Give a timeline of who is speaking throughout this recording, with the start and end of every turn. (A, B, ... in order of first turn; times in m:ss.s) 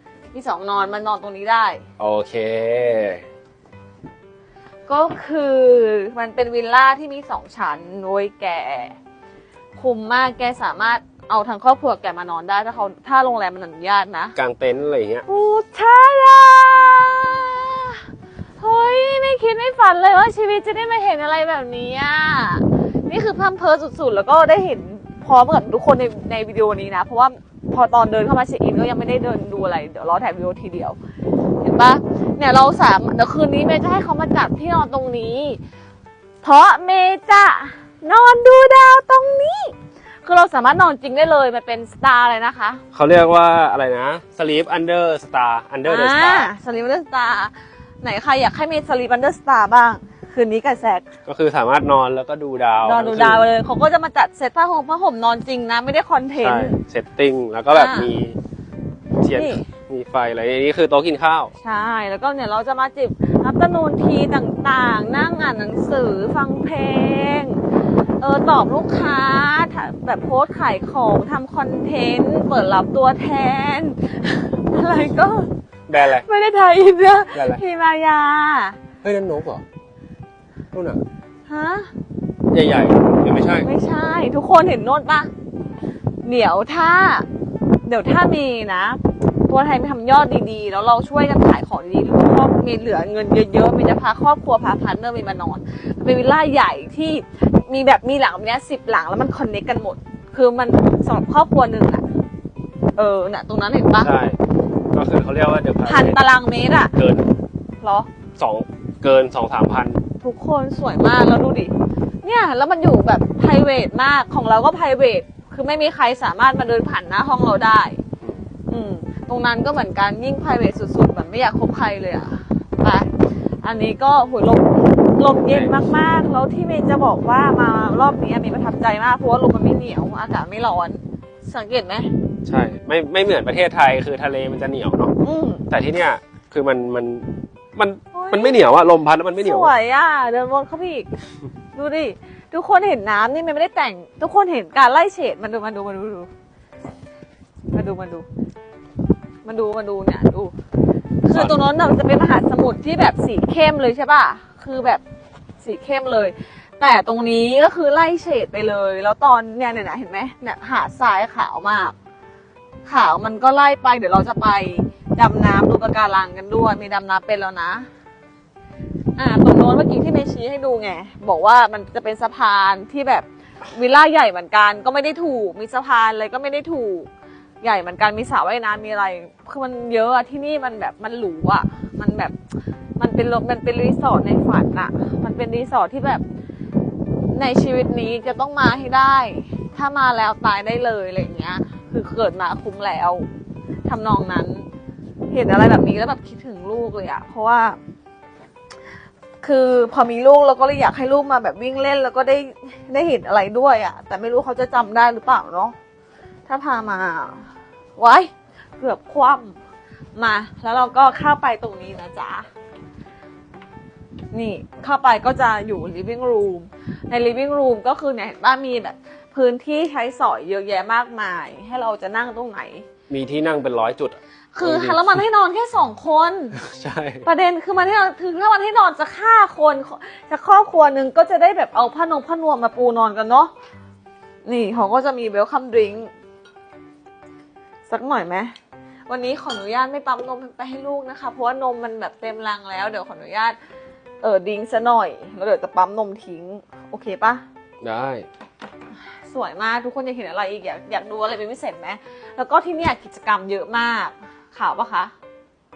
0:00.3-0:01.8 A
0:02.0-0:03.2 B
0:04.9-0:09.0 A
0:09.8-0:14.4 A
0:14.4-0:15.2 B
0:15.3-0:18.0 A
0:18.6-0:31.0 A
0:31.6-0:35.6 A
0:36.4-0:42.8 A
0:42.9-0:46.5 B
0:45.8-0:51.1 A
0:51.3-0:53.5 B
0:52.8-0:56.8 A
0:56.4-0:58.4 B
0:57.7-0:58.1 A
0:59.2-1:01.5 B
0:59.3-0:59.6 A
1:01.6-1:07.6 A
1:08.2-1:15.5 A
1:15.9-1:16.3 B
1:16.0-1:18.8 A
1:17.3-1:17.6 B
1:19.0-1:19.6 B
1:20.7-1:21.0 B
1:21.5-1:21.9 A
1:22.5-1:23.7 B
1:23.6-1:25.3 A
1:26.2-1:27.3 A
1:27.8-1:42.0 A
1:43.0-1:44.1 A
1:44.0-1:44.4 B
1:44.9-1:46.2 B
1:45.8-1:46.9 A
1:47.0-1:47.3 B
1:47.8-1:48.1 A
1:48.4-1:50.0 B
1:50.2-1:58.0 A
1:58.7-2:03.1 A
2:03.6-2:12.1 A
2:05.4-2:05.7 B
2:12.4-2:15.1 B
2:15.2-2:15.6 A
2:15.7-2:19.7 B
2:18.1-2:18.6 A
2:19.4-2:21.2 A
2:21.7-2:26.3 A
2:27.7-2:28.3 A
2:29.4-2:30.5 A
2:31.2-2:35.0 A
2:31.3-2:31.6 B
2:35.6-2:42.0 A
2:42.9-2:47.9 A
2:49.2-2:57.1 A
2:57.6-3:02.3 A
3:03.0-3:06.2 A
3:07.3-3:13.3 A
3:13.9-3:14.7 A
3:15.3-3:17.8 A
3:19.4-3:25.8 A
3:26.5-3:29.6 A
3:30.2-3:32.5 A
3:34.3-3:42.9 A
3:43.1-3:45.2 B
3:44.5-3:46.6 A
3:46.6-3:47.3 B
3:47.2-3:53.5 A
3:54.4-3:56.1 A
3:57.9-3:58.5 A
3:59.1-4:03.6 A
4:04.2-4:07.4 A
4:07.8-4:08.3 B
4:09.3-4:15.1 A